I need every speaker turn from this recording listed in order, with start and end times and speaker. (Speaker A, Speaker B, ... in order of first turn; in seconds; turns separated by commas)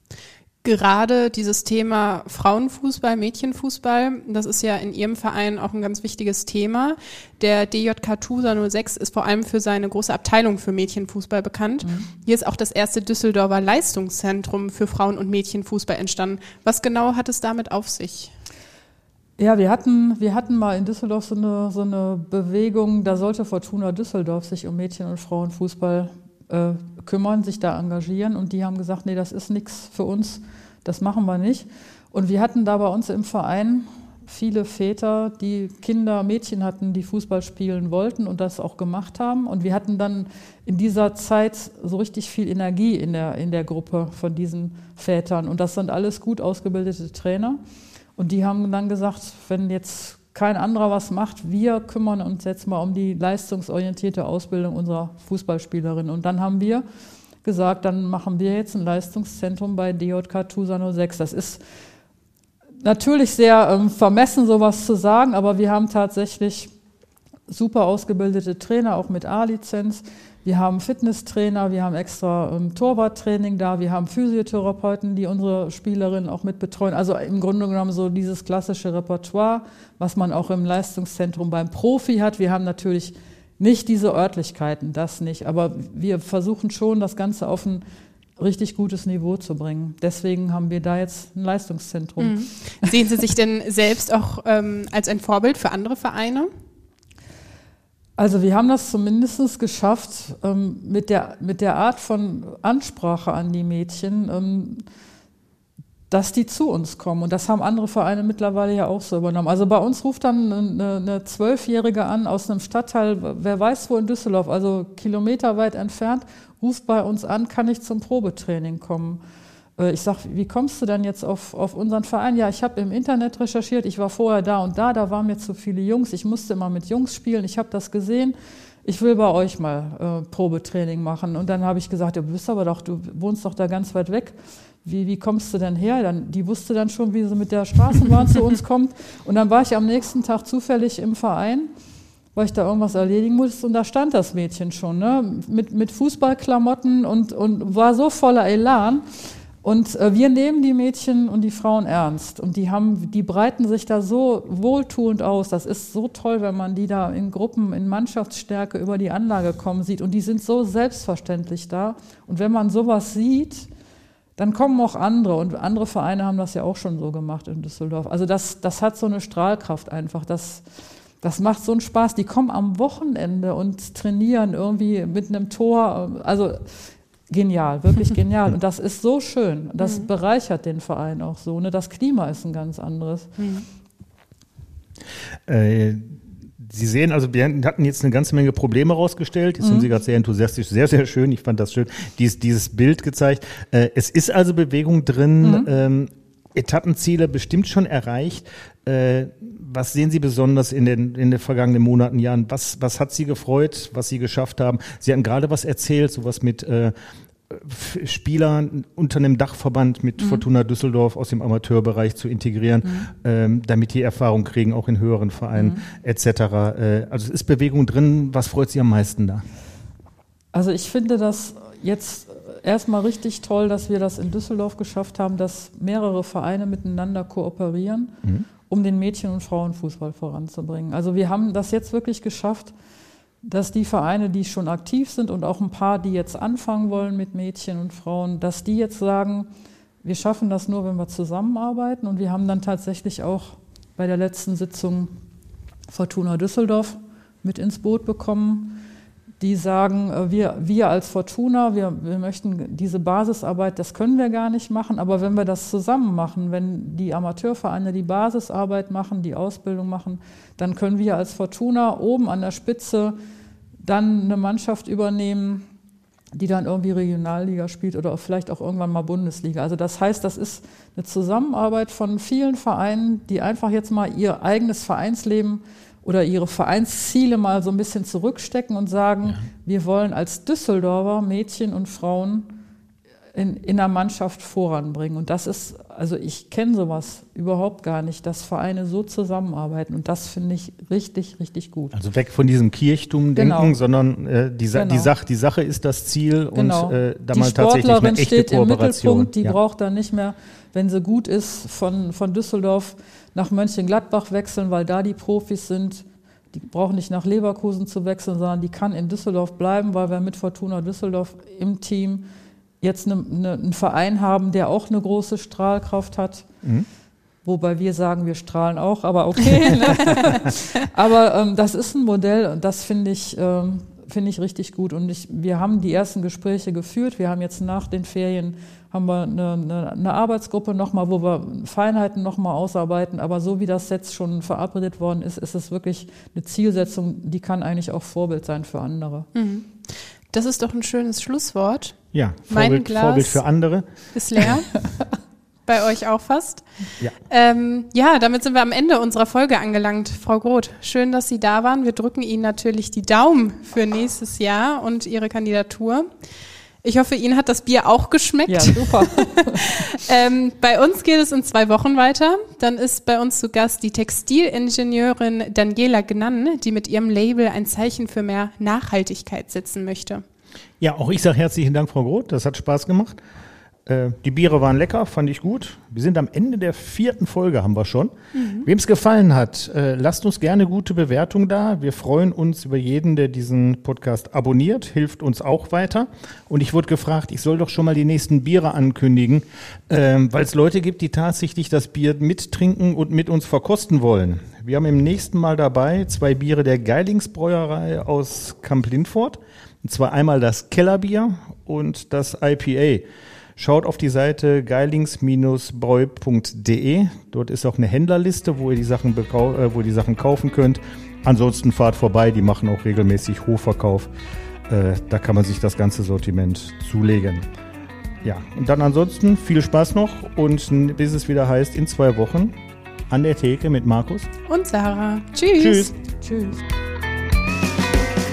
Speaker A: 0.6-18.3, Speaker B: 19.4-47.6, Speaker B: 48.2-56.8, Speaker B: 57.4-61.6, Speaker B: 62.8-66.7, Speaker B: 67.5-87.8, Speaker B: 88.4-92.9, Speaker A: 92.2-96.5, Speaker B: 98.2-104.8, Speaker B: 106.1-119.2, Speaker B: 119.8-141.7, Speaker B: 142.3-149.1, Speaker B: 149.6-163.7, Speaker B: 164.4-170.6, Speaker B: 171.2-183.3, Speaker A: 179.8-180.1, Speaker A: 183.4-183.6, Speaker C: 185.5-206.9, Speaker B: 189.6-189.9, Speaker B: 195.4-195.7, Speaker C: 207.5-219.4, Speaker B: 212.8-213.1, Speaker B: 215.5-215.8, Speaker B: 220.5-228.1, Speaker B: 228.7-232.7, Speaker B: 233.4-239.5, Speaker B: 240.0-245.1, Speaker B: 245.9-248.8, Speaker B: 249.4-263.1, Speaker B: 263.8-265.6, Speaker B: 266.3-282.5, Speaker B: 283.3-291.9, Speaker C: 291.9-299.6, Speaker B: 293.4-293.8, Speaker B: 294.7-295.1, Speaker B: 296.5-312.3, Speaker B: 312.8-316.5, Speaker B: 317.4-339.3, Speaker A: 339.3-343.4, Speaker C: 342.1-343.9, Speaker A: 344.1-344.9, Speaker A: 345.7-356.1, Speaker A: 356.8-370.2, Speaker B: 358.5-359.8, Speaker C: 370.8-373.2, Speaker C: 373.9-403.0, Speaker A: 378.3-378.7, Speaker C: 403.6-414.1, Speaker C: 414.7-417.5, Speaker C: 418.2-422.6, Speaker C: 423.1-424.3, Speaker A: 424.5-425.9, Speaker C: 425.6-425.9